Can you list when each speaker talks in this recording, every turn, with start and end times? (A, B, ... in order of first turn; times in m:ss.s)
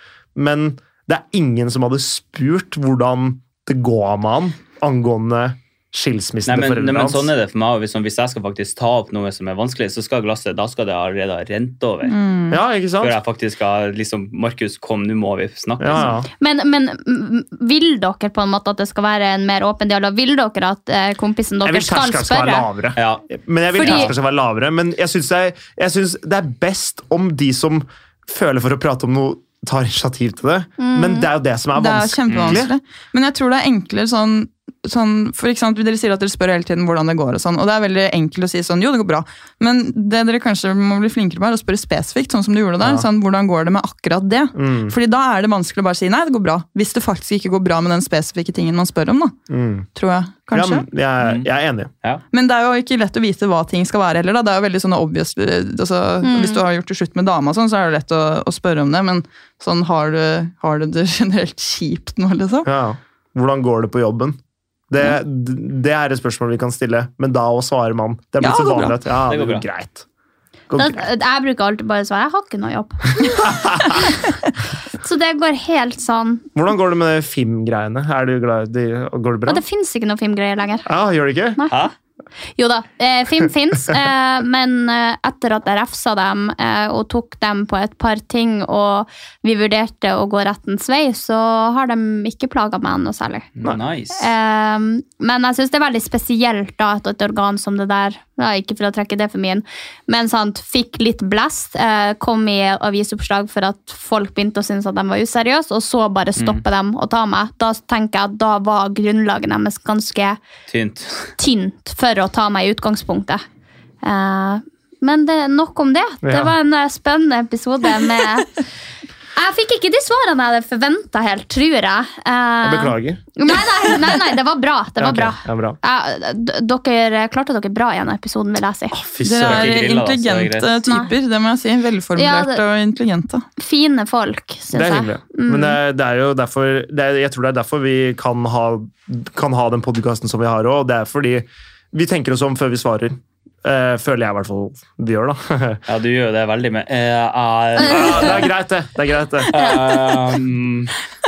0:00.3-0:07.3 A
0:06.4-0:12.1 B
0:12.1-0:12.6 C
0:12.5-0:13.2 A
0:13.0-0:16.1 B
0:15.8-0:16.3 A
0:16.0-0:22.6 D
0:21.6-0:32.7 A
0:23.0-0:23.2 B
0:23.8-0:24.1 D
0:23.8-0:24.1 B
0:30.8-0:31.3 D
0:31.7-0:49.4 C
0:32.3-0:32.6 B
0:42.8-0:43.0 A
0:44.5-0:44.9 A
0:49.5-0:49.9 A
0:49.9-0:50.8 C
0:50.5-0:51.9 A
0:51.2-0:51.5 B
0:52.3-1:02.7 C
0:56.2-0:56.6 D
1:02.6-1:04.4 A
1:04.9-1:10.0 A
1:08.4-1:08.9 C
1:09.3-1:09.6 B
1:10.7-1:11.1 A
1:10.8-1:14.3 D
1:13.2-1:14.0 A
1:14.9-1:16.5 D
1:16.5-1:19.6 A
1:19.4-1:20.8 D
1:20.8-1:21.6 A
1:21.6-1:21.8 D
1:22.6-1:33.5 D
1:33.6-1:34.3 B
1:34.1-1:50.4 D
1:50.7-1:51.3 B
1:51.4-1:53.4 D
1:54.0-1:58.6 D
1:56.2-1:56.5 A
1:59.4-2:09.0 D
2:02.6-2:03.2 A
2:05.0-2:05.8 A
2:08.9-2:09.7 A
2:09.2-2:13.4 C
2:09.5-2:10.7 B
2:10.9-2:11.1 D
2:12.2-2:12.6 D
2:13.6-2:15.8 D
2:14.7-2:25.8 A
2:25.8-2:28.5 B
2:27.8-2:28.3 D
2:27.8-2:29.7 A
2:29.5-2:30.9 B
2:29.5-2:30.1 D